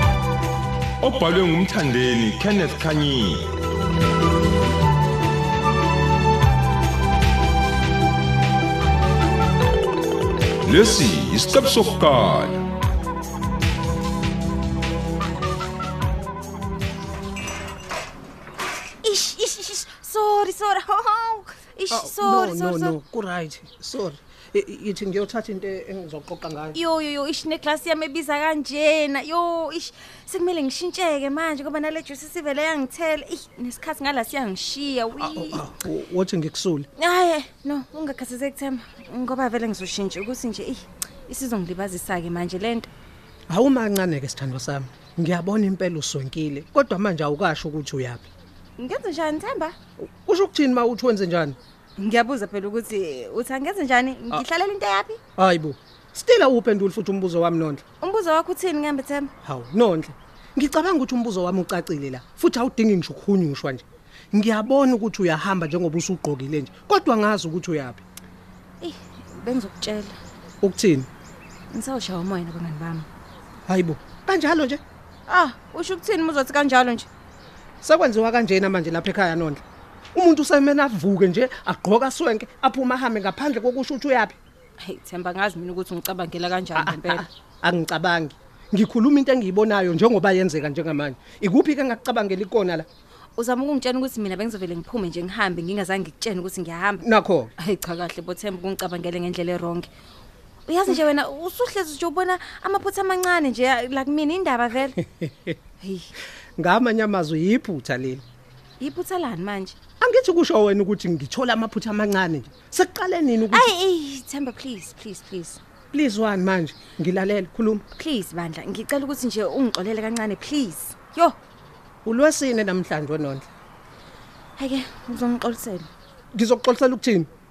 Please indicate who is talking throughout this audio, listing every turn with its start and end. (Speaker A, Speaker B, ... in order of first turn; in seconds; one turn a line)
Speaker A: 1.0-3.5
Speaker A: 10.7-12.6
Speaker B: 19.0-22.9
Speaker C: 21.9-26.8
Speaker B: 26.7-35.7
Speaker C: 35.2-36.9
Speaker B: 37.0-42.9
Speaker C: 43.5-48.3
Speaker B: 48.8-49.8
Speaker C: 50.0-51.6
Speaker B: 52.0-55.2
Speaker C: 55.4-57.8
Speaker B: 58.0-59.3
Speaker C: 59.4-68.0
Speaker B: 68.8-70.2
Speaker C: 70.6-71.1
Speaker B: 71.7-73.1
Speaker C: 73.7-74.8
Speaker B: 75.3-77.1
Speaker C: 77.8-79.6
Speaker C: 80.2-84.4
Speaker B: 84.8-87.3
Speaker C: 86.8-92.9
Speaker B: 93.4-97.0
Speaker C: 97.0-97.5
Speaker B: 97.6-99.9
Speaker B: 100.7-105.0
Speaker C: 105.0-105.6
Speaker B: 105.8-106.1
Speaker C: 106.6-108.2
Speaker B: 108.8-109.8
Speaker C: 110.0-113.7
Speaker B: 113.5-115.6
Speaker C: 115.9-117.8
Speaker B: 118.0-121.4
Speaker C: 122.0-123.5
Speaker B: 124.6-125.9
Speaker C: 126.3-127.3